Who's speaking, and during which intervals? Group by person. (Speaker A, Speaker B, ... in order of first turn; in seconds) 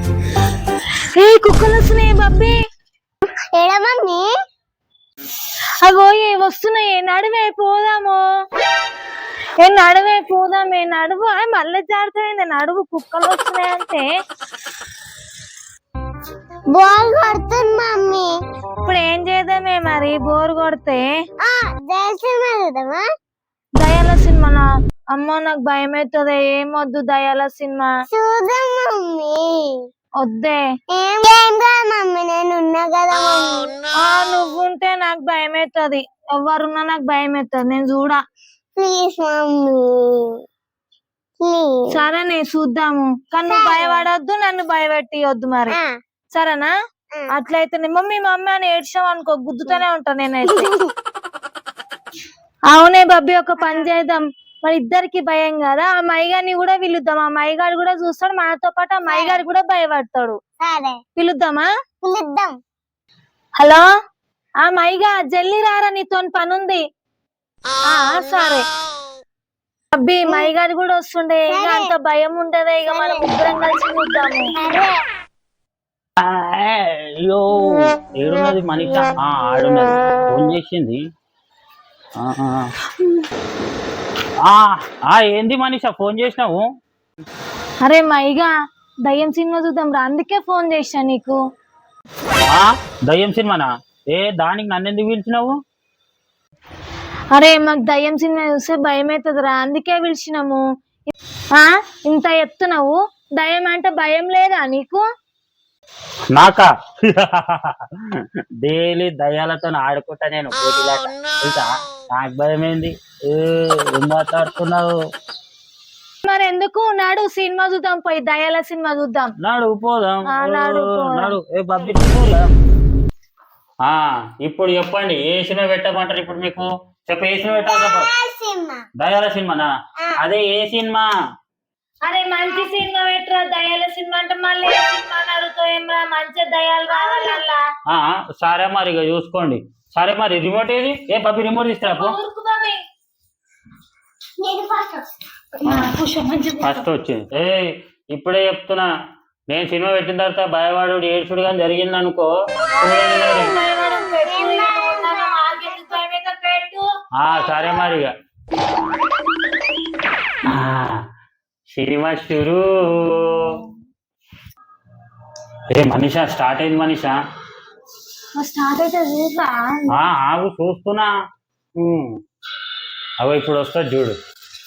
Speaker A: 1.1-2.5, 5.8-8.2, 9.6-14.1, 18.8-21.1, 23.8-27.9, 30.2-30.6, 34.1-38.2, 41.9-45.8, 46.3-46.7, 47.3-50.7, 52.7-60.4, 61.2-61.7, 63.6-63.8, 64.6-66.8, 67.9-68.6, 70.0-74.5, 87.8-88.5, 89.0-91.4, 97.3-100.6, 101.5-105.0, 116.2-119.3, 120.3-121.3, 132.1-137.6, 142.0-142.8, 145.6-146.8, 152.7-156.8, 168.4-169.9
Speaker B: 3.5-4.3, 16.7-18.3, 21.4-23.0, 28.1-29.8, 30.9-33.7, 38.8-40.4, 41.4-42.0, 43.5-44.1, 50.5-50.9, 53.6-53.9, 59.1-59.4, 60.6-61.0, 62.0-62.5, 71.5-71.9, 72.9-73.2, 74.6-75.0, 127.6-128.8, 136.9-137.4, 144.4-145.1, 154.3-155.2, 157.4-157.9
Speaker C: 76.2-81.0, 82.2-82.7, 84.4-86.6, 92.5-95.6, 106.3-114.9, 119.4-122.5, 123.8-128.1, 129.0-129.7, 130.2-131.1, 137.9-142.2, 145.7-145.9, 146.6-148.9, 149.5-152.3, 152.8-153.6, 157.2-158.1, 160.4-161.0, 161.7-163.6, 165.7-167.2, 169.9-171.1, 171.8-172.2, 173.2-174.2